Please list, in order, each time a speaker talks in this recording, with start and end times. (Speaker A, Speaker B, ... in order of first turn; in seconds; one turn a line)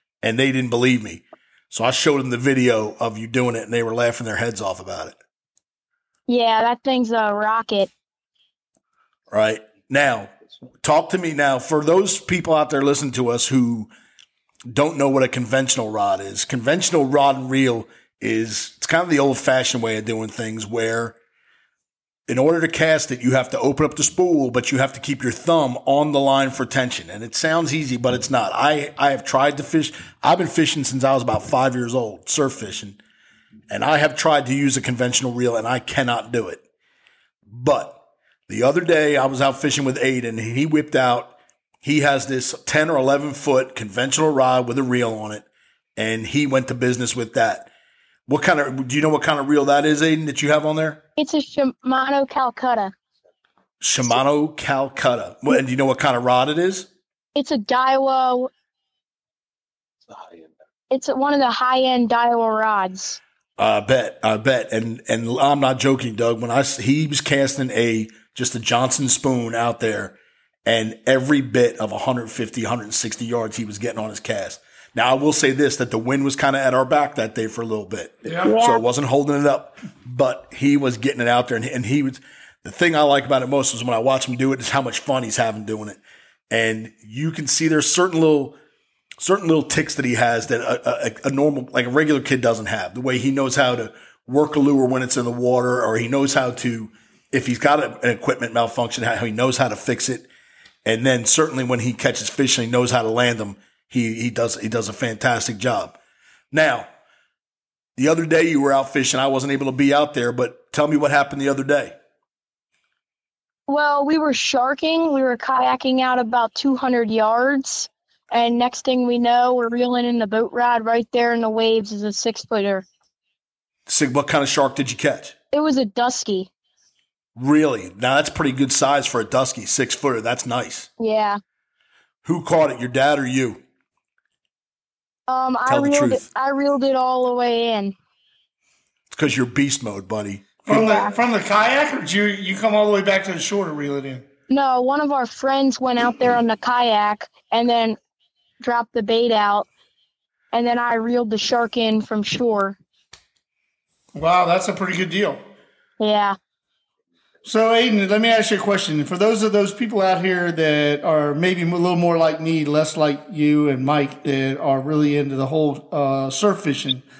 Speaker A: 0.2-5.2
Speaker B: 6.3-7.9
Speaker A: 9.3-13.9
Speaker A: 14.7-21.1
Speaker A: 22.3-33.0
Speaker A: 33.7-36.6
Speaker A: 37.5-45.5
Speaker A: 46.0-47.7
Speaker A: 48.3-51.0
Speaker B: 51.2-52.9
Speaker A: 53.8-56.9
Speaker B: 57.4-58.5
Speaker B: 60.9-63.2
Speaker A: 63.6-86.0
Speaker C: 78.2-78.5
Speaker B: 78.4-78.8
Speaker A: 86.5-88.6
Speaker A: 89.2-100.3
Speaker A: 100.8-106.0
Speaker A: 106.5-106.9
Speaker A: 108.0-111.9
Speaker B: 113.7-122.9
Speaker A: 123.9-125.3
Speaker B: 125.5-126.5
Speaker A: 127.4-130.9
Speaker B: 131.0-131.4
Speaker A: 132.2-133.6
Speaker B: 135.3-137.9
Speaker A: 135.7-136.2
Speaker A: 139.1-140.8
Speaker C: 140.7-144.2
Speaker B: 140.7-141.1
Speaker B: 144.5-148.0
Speaker B: 148.6-149.7
Speaker B: 150.5-152.8
Speaker C: 154.2-155.4
Speaker B: 156.0-156.4
Speaker C: 157.4-167.1